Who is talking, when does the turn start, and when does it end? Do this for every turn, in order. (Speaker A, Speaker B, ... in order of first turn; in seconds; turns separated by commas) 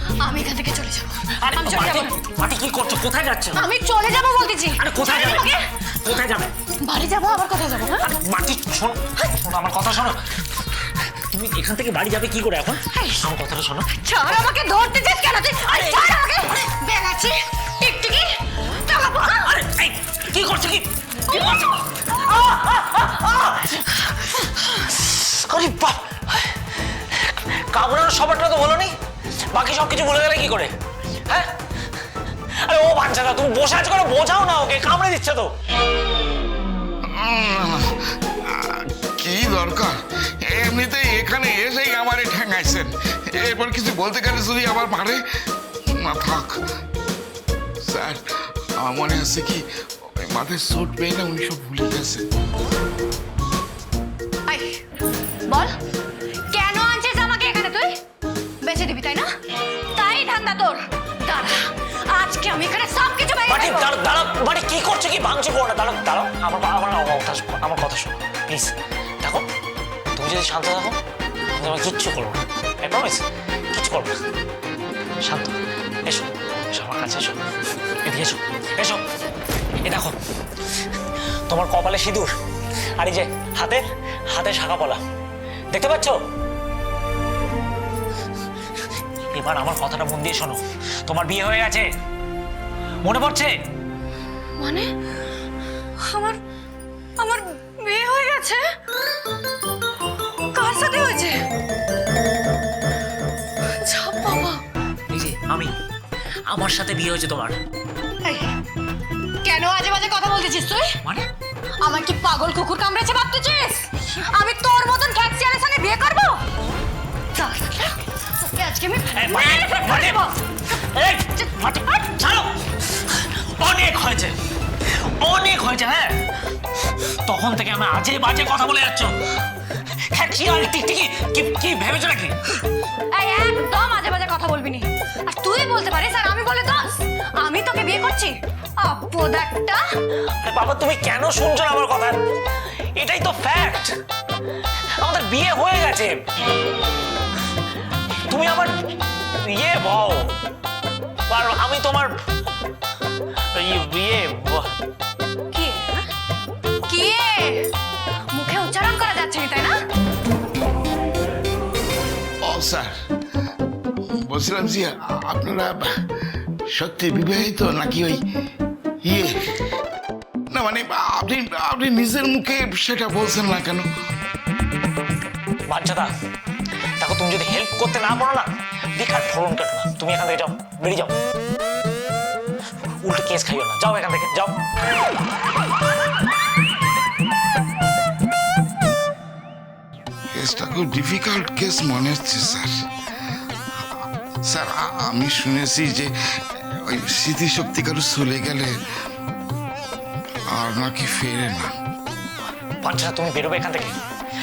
Speaker A: 0.2-2.2, Speaker B: 1.4-3.6, Speaker A: 3.5-5.8, Speaker B: 4.8-6.5, Speaker A: 6.8-8.1, Speaker B: 8.0-10.2, Speaker B: 11.1-13.9, Speaker A: 12.9-13.2, Speaker A: 13.9-19.5, Speaker B: 15.6-16.3, Speaker B: 19.2-28.9, Speaker A: 21.3-21.7, Speaker B: 29.5-30.7, Speaker B: 31.3-31.5, Speaker B: 32.6-35.5, Speaker C: 37.0-45.2, Speaker C: 45.9-46.6, Speaker C: 47.8-49.6, Speaker C: 50.2-52.2, Speaker A: 54.5-54.8, Speaker A: 55.5-55.8, Speaker A: 56.5-58.0, Speaker A: 58.6-59.3, Speaker A: 59.9-64.0, Speaker B: 63.5-69.5, Speaker B: 70.1-71.0, Speaker B: 71.5-74.1, Speaker B: 75.2-77.4, Speaker B: 78.0-79.0, Speaker B: 79.8-80.2, Speaker B: 81.5-82.3, Speaker B: 83.0-85.0, Speaker B: 85.7-86.2, Speaker B: 89.3-91.8, Speaker B: 93.0-93.5, Speaker A: 94.6-94.9, Speaker A: 96.0-96.4, Speaker A: 97.2-98.6, Speaker A: 100.5-101.4, Speaker A: 103.7-104.6, Speaker B: 105.1-105.7, Speaker B: 106.5-107.6, Speaker A: 108.2-108.6, Speaker A: 109.4-111.0, Speaker A: 111.8-116.4, Speaker A: 117.3-120.4, Speaker B: 119.1-126.2, Speaker B: 127.0-129.2, Speaker B: 129.9-132.6, Speaker A: 133.1-139.9, Speaker B: 140.4-142.2, Speaker B: 142.9-143.9, Speaker B: 145.0-146.2, Speaker B: 148.3-148.7, Speaker B: 149.4-150.3, Speaker B: 151.3-152.1, Speaker B: 153.5-154.7, Speaker A: 155.5-156.1, Speaker A: 156.9-157.7, Speaker A: 158.3-159.8, Speaker C: 162.4-162.9, Speaker C: 164.1-165.9, Speaker C: 166.7-168.2, Speaker C: 169.0-169.6, Speaker C: 170.5-173.9, Speaker B: 175.7-176.1, Speaker B: 177.0-181.1, Speaker B: 183.0-184.6, Speaker C: 190.3-192.7, Speaker C: 194.4-198.7, Speaker C: 200.5-201.7, Speaker B: 202.8-203.9